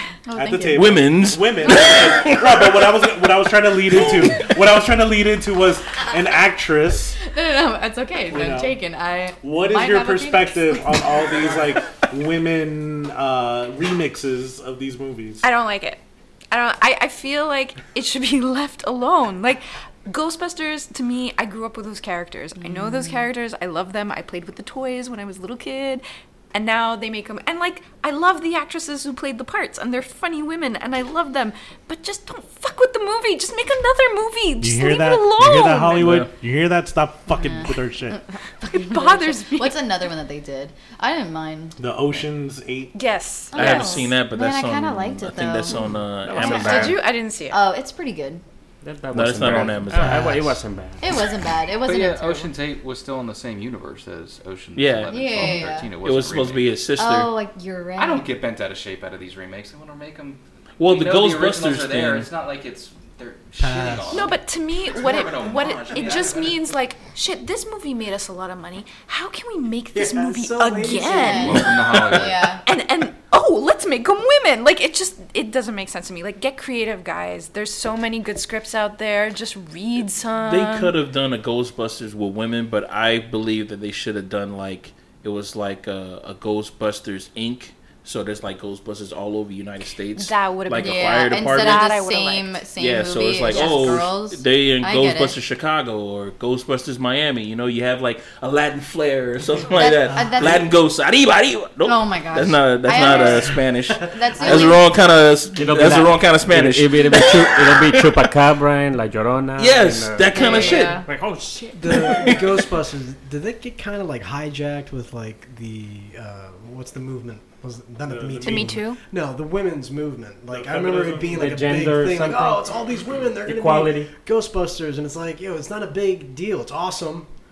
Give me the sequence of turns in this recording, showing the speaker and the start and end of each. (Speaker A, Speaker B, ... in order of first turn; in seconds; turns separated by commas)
Speaker A: 0.3-0.9, Speaker B: 0.3-7.2, Speaker C: 0.7-2.9, Speaker A: 1.6-2.3, Speaker A: 7.2-11.0, Speaker B: 8.3-8.8, Speaker B: 9.4-15.5, Speaker D: 15.4-36.1, Speaker A: 22.6-23.2, Speaker B: 34.6-38.2, Speaker C: 35.9-36.3, Speaker A: 37.3-41.8, Speaker D: 38.6-39.8, Speaker B: 41.8-43.0, Speaker D: 42.9-44.0, Speaker A: 43.5-46.9, Speaker C: 43.5-47.0, Speaker E: 46.2-47.0, Speaker D: 46.4-47.6, Speaker A: 47.5-48.4, Speaker E: 48.8-51.0, Speaker C: 49.1-50.6, Speaker A: 49.4-49.7, Speaker A: 51.0-52.5, Speaker F: 51.8-56.7, Speaker C: 54.7-57.3, Speaker A: 55.1-55.9, Speaker A: 57.0-58.3, Speaker F: 58.0-66.6, Speaker C: 60.8-62.3, Speaker G: 63.6-64.3, Speaker D: 64.1-80.9, Speaker G: 69.9-71.6, Speaker A: 71.1-72.6, Speaker F: 71.4-72.5, Speaker C: 80.5-92.0, Speaker D: 90.2-92.6, Speaker A: 90.7-95.4, Speaker C: 92.8-108.3, Speaker D: 93.5-94.0, Speaker A: 99.7-100.7, Speaker G: 100.2-100.4, Speaker A: 101.8-104.8, Speaker E: 105.5-112.6, Speaker C: 109.6-111.0, Speaker A: 110.3-111.0, Speaker G: 111.8-127.3, Speaker B: 118.0-118.8, Speaker D: 118.4-119.0, Speaker B: 120.5-121.4, Speaker E: 121.3-122.6, Speaker E: 123.4-124.1